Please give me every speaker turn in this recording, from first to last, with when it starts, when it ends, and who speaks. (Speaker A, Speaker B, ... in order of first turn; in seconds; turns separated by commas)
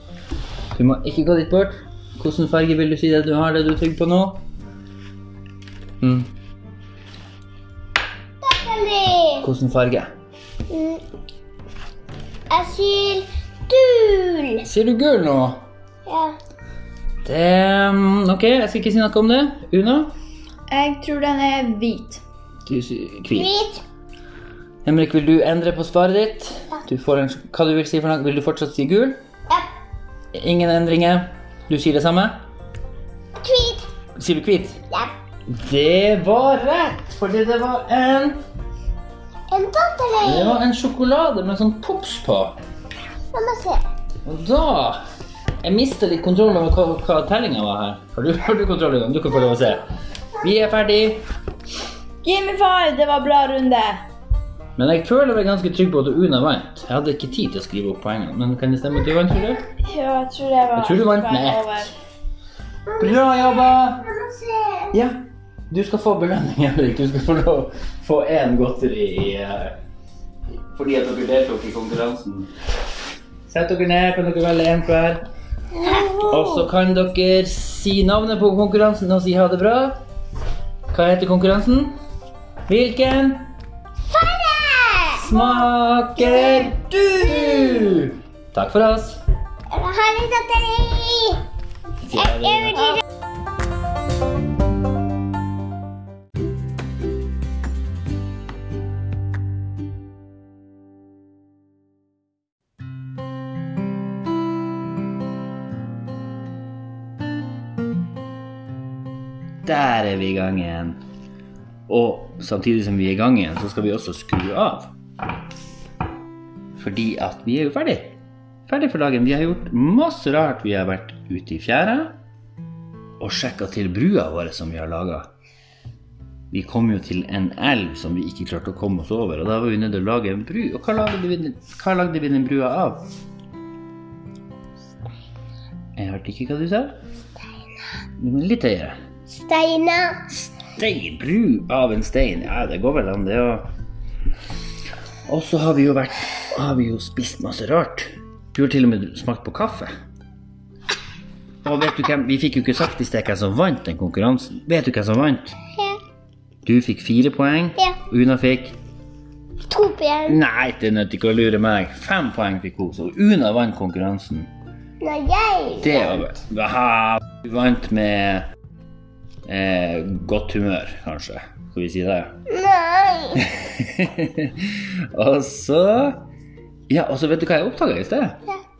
Speaker A: 0.7-4.4, Speaker A: 6.0-6.3, Speaker B: 8.4-9.5, Speaker A: 9.4-10.1, Speaker B: 10.7-11.0, Speaker B: 12.5-14.6, Speaker A: 14.6-15.6, Speaker B: 16.1-16.4, Speaker A: 17.2-20.1, Speaker C: 20.7-22.2, Speaker A: 22.7-23.5, Speaker B: 23.3-23.8, Speaker A: 24.8-29.2, Speaker A: 30.3-32.4, Speaker B: 33.4-33.9, Speaker A: 34.1-34.8, Speaker A: 35.5-38.4, Speaker B: 39.5-40.6, Speaker A: 40.2-42.6, Speaker B: 43.3-43.8, Speaker A: 44.2-45.0, Speaker A: 45.6-49.8, Speaker A: 50.4-51.2, Speaker C: 52.2-54.0, Speaker A: 54.8-59.6, Speaker C: 59.8-61.9, Speaker A: 60.8-61.9, Speaker B: 62.9-64.9, Speaker A: 63.0-64.1, Speaker A: 64.9-69.8, Speaker A: 70.7-72.5, Speaker A: 73.5-75.2, Speaker B: 75.8-76.2, Speaker A: 76.2-80.0, Speaker A: 80.9-81.9, Speaker A: 82.7-83.5, Speaker B: 84.1-85.6, Speaker A: 85.1-89.2, Speaker B: 86.3-86.7, Speaker B: 87.4-88.0, Speaker B: 89.7-91.4, Speaker A: 92.0-93.0, Speaker B: 92.4-93.0, Speaker A: 109.6-111.0, Speaker A: 111.9-114.9, Speaker A: 116.8-118.2, Speaker A: 118.7-122.2, Speaker A: 123.2-125.3, Speaker A: 126.5-133.1, Speaker A: 135.9-137.0, Speaker A: 138.2-138.9, Speaker B: 139.3-140.2, Speaker A: 140.3-143.7, Speaker A: 145.3-149.9, Speaker A: 151.6-155.6, Speaker B: 155.7-156.0, Speaker A: 156.6-158.8, Speaker B: 159.7-160.4, Speaker A: 160.3-164.5, Speaker B: 165.0-166.2, Speaker A: 165.8-168.5, Speaker A: 169.4-172.3, Speaker B: 172.5-173.4, Speaker A: 173.4-176.2, Speaker A: 176.9-178.4